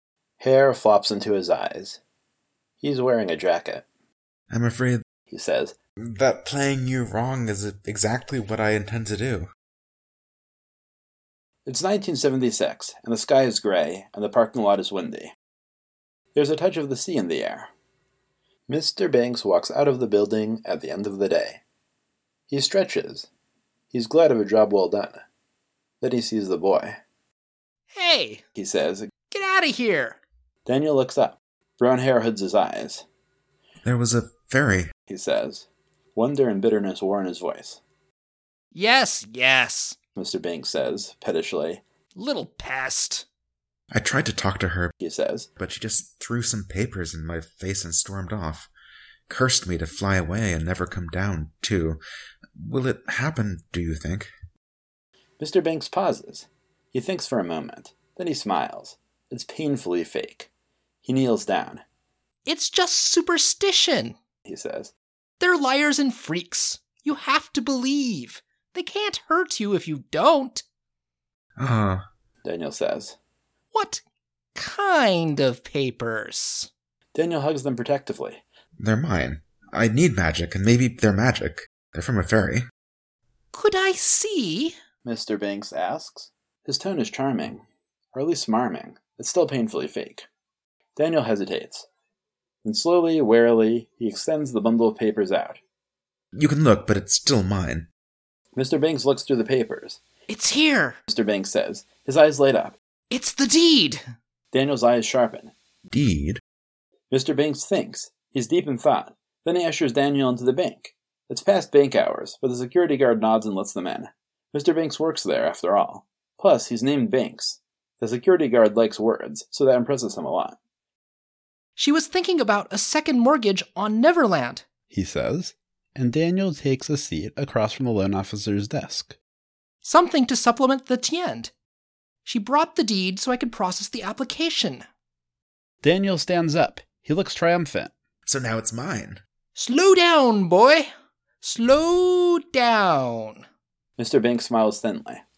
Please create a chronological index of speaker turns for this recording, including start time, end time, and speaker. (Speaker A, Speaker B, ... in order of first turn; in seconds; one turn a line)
Speaker A: 0.4-2.0
Speaker A: 2.8-3.9
Speaker B: 4.5-5.0
Speaker A: 5.3-5.8
Speaker B: 6.0-9.5
Speaker A: 11.7-15.3
Speaker A: 16.3-17.7
Speaker A: 18.7-21.6
Speaker A: 22.5-23.3
Speaker A: 23.9-25.2
Speaker A: 26.0-27.0
Speaker C: 27.9-28.4
Speaker A: 28.6-29.1
Speaker C: 29.3-30.2
Speaker A: 30.7-33.1
Speaker B: 33.8-34.9
Speaker A: 35.1-37.8
Speaker C: 38.7-40.0
Speaker A: 40.2-41.8
Speaker C: 42.1-43.2
Speaker B: 43.9-44.9
Speaker A: 45.0-45.5
Speaker B: 45.6-48.7
Speaker B: 49.3-52.0
Speaker B: 52.6-54.3
Speaker A: 55.4-60.5
Speaker A: 61.0-61.8
Speaker C: 62.5-64.2
Speaker A: 64.5-64.9
Speaker C: 65.4-70.6
Speaker B: 71.6-72.0
Speaker A: 72.4-73.2
Speaker C: 73.7-74.0
Speaker C: 74.6-76.7
Speaker A: 77.1-78.4
Speaker B: 78.8-82.6
Speaker C: 83.5-84.8
Speaker A: 85.0-87.6
Speaker A: 88.1-90.3
Speaker A: 91.0-91.9
Speaker A: 92.6-95.6
Speaker B: 96.4-97.9
Speaker A: 98.5-100.0
Speaker C: 100.3-101.0
Speaker A: 101.1-102.8
Speaker C: 103.1-104.0
Speaker A: 104.5-105.5
Speaker B: 105.9-106.4
Speaker A: 107.1-120.6
Speaker C: 121.8-124.7
Speaker A: 124.9-129.2
Speaker C: 129.8-131.5
Speaker C: 132.2-134.8
Speaker A: 135.8-137.9
Speaker B: 138.3-139.2
Speaker C: 139.6-140.9
Speaker C: 141.4-143.4
Speaker A: 144.0-145.2